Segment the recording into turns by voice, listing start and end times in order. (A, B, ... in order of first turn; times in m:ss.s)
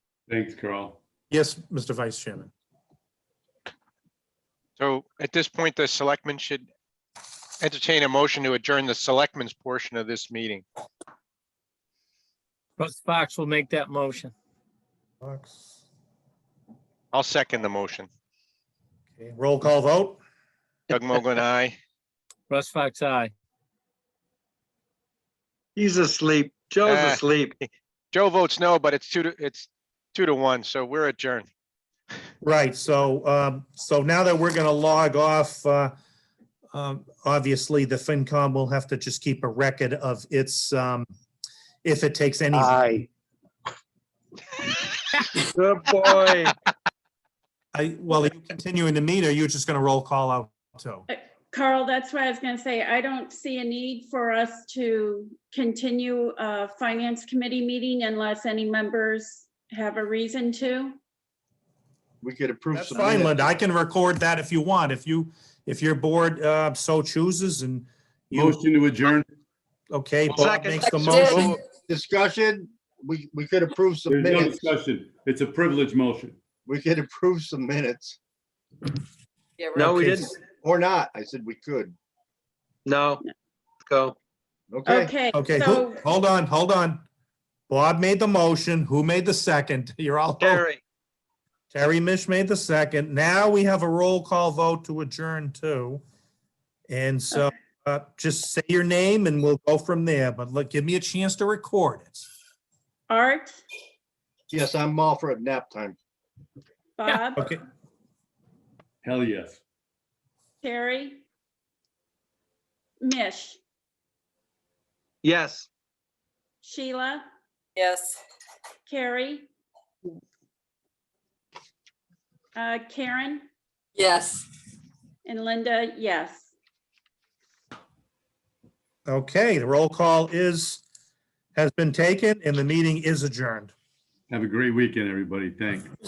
0:00.3-0:01.0 A
0:01.3-0:02.5 B
0:04.8-0:06.7 C
0:07.6-0:10.6 C
0:12.8-0:14.3 D
0:15.2-0:15.8 B
0:17.1-0:18.1 C
0:19.2-0:20.2 B
0:20.9-0:21.7 C
0:22.5-0:23.3 D
0:25.8-0:27.6 E
0:26.8-0:31.5 C
0:32.4-0:35.9 B
0:36.7-0:41.1 B
0:41.8-0:43.0 B
0:45.4-0:46.5 E
0:47.7-0:51.1 B
0:51.1-1:01.0 F
1:02.2-1:03.4 G
1:02.8-1:08.6 B
1:08.3-1:09.3 A
1:09.9-1:11.5 B
1:10.4-1:10.9 E
1:10.8-1:11.5 H
1:11.9-1:14.6 G
1:14.1-1:16.4 A
1:16.6-1:18.2 G
1:19.6-1:20.1 H
1:19.7-1:20.4 E
1:20.6-1:21.9 G
1:22.8-1:23.2 E
1:23.8-1:24.1 E
1:24.7-1:25.1 G
1:24.9-1:26.0 F
1:25.3-1:27.0 B
1:27.7-1:30.6 B
1:30.4-1:30.8 E
1:31.7-1:36.0 B
1:36.9-1:42.2 B
1:43.1-1:43.6 F
1:44.5-1:46.0 G
1:47.0-1:47.6 F
1:49.0-1:49.6 A
1:50.6-1:51.2 F
1:53.0-1:53.6 F
1:55.2-1:55.7 E
1:56.6-1:57.2 F
1:57.8-1:58.2 H
1:58.8-1:59.5 F
2:02.5-2:03.4 F
2:04.0-2:04.4 H
2:05.2-2:06.5 F
2:09.1-2:10.8 B
2:11.6-2:13.7 B
2:14.3-2:15.9 A